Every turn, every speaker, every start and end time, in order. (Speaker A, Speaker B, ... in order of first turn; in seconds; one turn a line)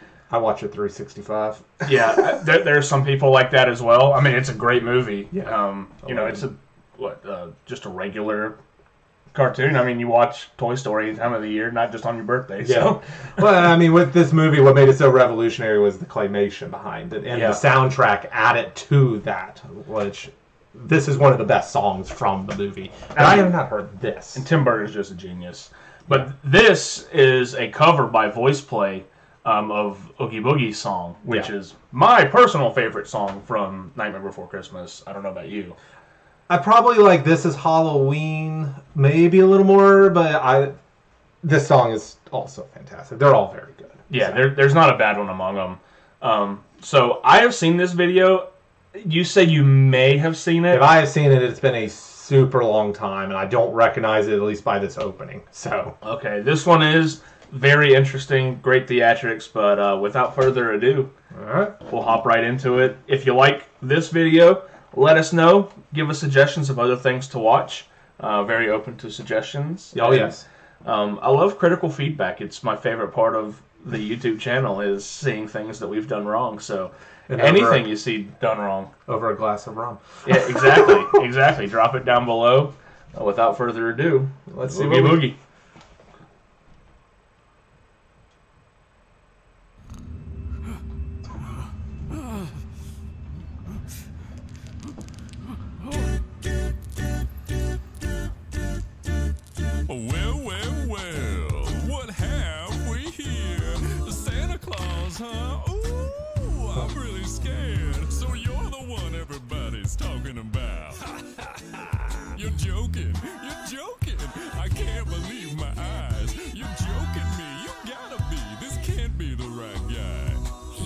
Speaker A: 0.3-2.2
Speaker B: 1.8-8.6
Speaker A: 5.3-6.4
Speaker B: 9.3-13.4
Speaker A: 12.6-24.4
Speaker B: 17.3-17.6
Speaker B: 23.1-23.5
Speaker B: 24.3-35.8
Speaker A: 36.5-40.7
Speaker A: 41.4-44.4
Speaker B: 44.1-50.9
Speaker A: 50.7-56.0
Speaker B: 56.0-61.1
Speaker A: 61.3-61.8
Speaker B: 61.9-78.9
Speaker A: 69.9-70.4
Speaker A: 77.3-77.9
Speaker A: 79.1-81.2
Speaker B: 80.2-85.4
Speaker A: 84.5-85.3
Speaker C: 99.8-111.2
Speaker C: 112.2-120.5